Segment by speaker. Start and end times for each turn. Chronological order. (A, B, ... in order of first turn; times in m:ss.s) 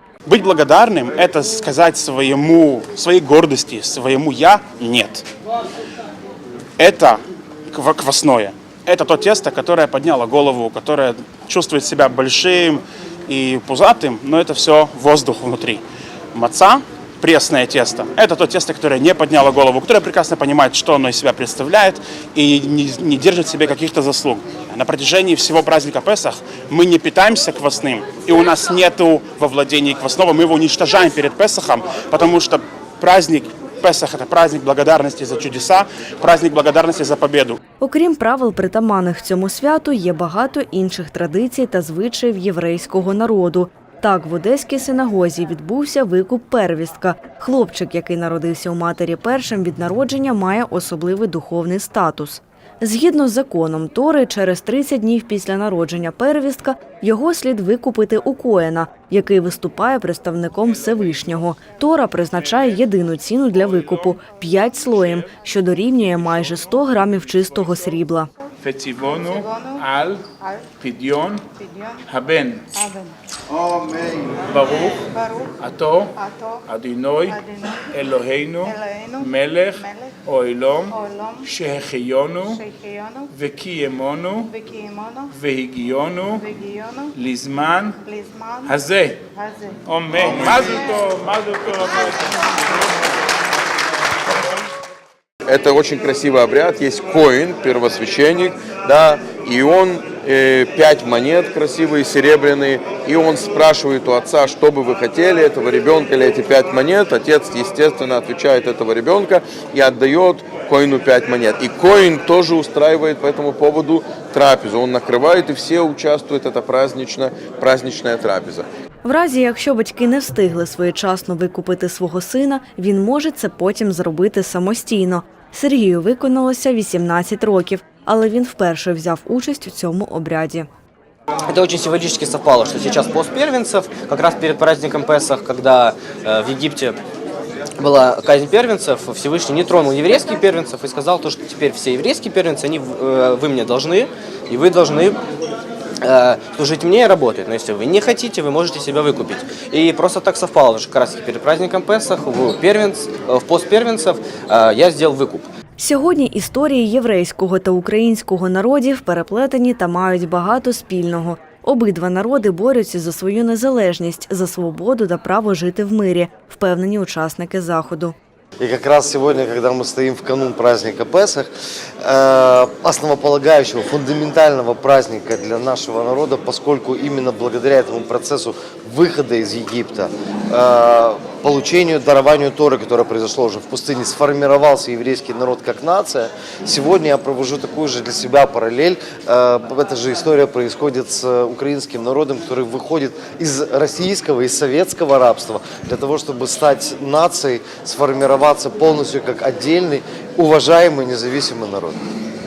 0:00.3-0:05.3 A
0:06.8-0:07.2 A
0:07.7-0:15.8 A
0:16.4-0:37.6 A
0:37.8-1:08.3 B
1:08.6-1:10.2 C
1:10.8-1:11.4 C
1:12.1-1:12.7 C
1:14.4-1:15.0 C
1:15.6-1:16.1 C
1:16.7-1:22.6 C
1:23.3-1:24.6 C
1:25.3-1:26.6 C
1:27.1-1:28.0 C
1:28.7-1:29.2 C
1:29.8-1:32.8 C
1:35.5-1:58.7 D
1:59.0-2:10.7 B
2:11.5-2:17.0 E
2:17.8-2:25.2 E
2:26.0-2:35.5 E
2:35.8-2:48.2 B
2:48.6-2:51.5 F
2:52.0-3:22.0 F